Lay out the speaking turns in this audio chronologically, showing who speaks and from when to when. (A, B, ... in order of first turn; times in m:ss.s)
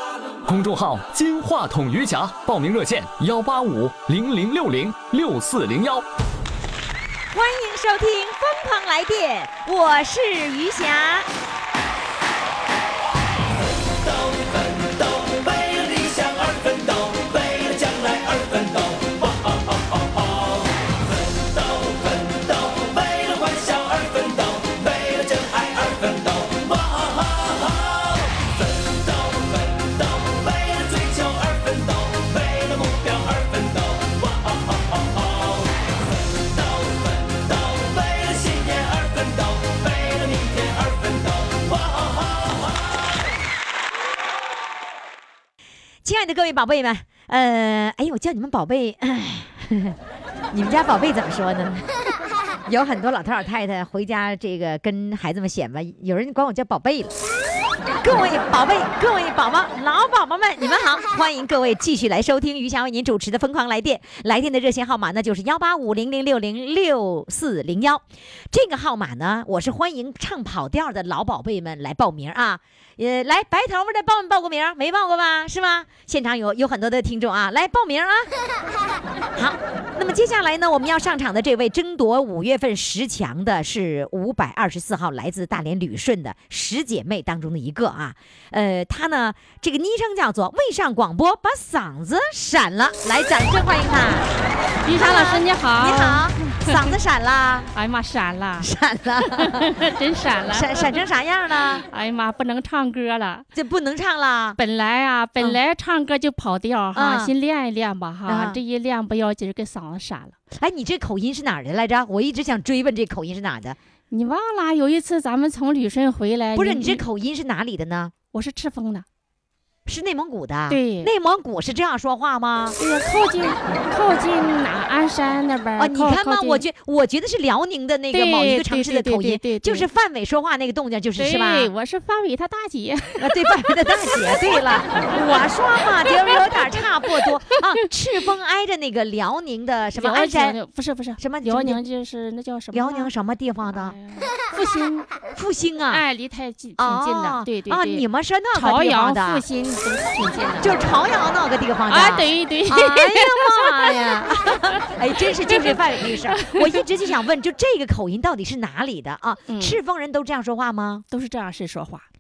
0:00.4-0:06.0 A
0:07.3-0:11.3 B
0:13.8-0:43.0 C
0:46.0-0:50.0 B
0:50.5-0:51.9 B
0:52.7-0:57.1 B
0:58.0-1:18.3 B
1:19.4-1:34.3 B
1:34.8-1:36.9 D
1:34.9-1:37.7 B
1:37.7-1:38.7 D
1:38.6-1:39.8 B
1:39.2-1:41.0 D
1:40.5-1:41.8 B
1:41.9-1:43.5 D
1:43.5-1:44.6 B
1:44.6-1:50.4 D
1:46.9-1:47.3 B
1:48.3-1:48.6 B
1:50.6-1:53.8 B
1:54.1-1:57.0 D
1:56.6-1:58.1 B
1:58.3-1:59.1 D
1:59.9-2:02.8 B
2:00.7-2:01.1 D
2:02.8-2:06.6 D
2:05.8-2:11.7 B
2:08.1-2:09.9 D
2:11.2-2:15.2 D
2:13.2-2:20.6 B
2:20.0-2:23.1 D
2:21.2-2:21.8 B
2:22.7-2:24.0 B
2:23.7-2:25.1 D
2:25.4-2:26.0 B
2:25.9-2:30.9 D
2:26.8-2:29.4 B
2:30.6-2:41.0 B
2:31.9-2:34.8 D
2:35.5-2:36.8 D
2:39.5-2:39.8 D
2:41.1-2:42.0 D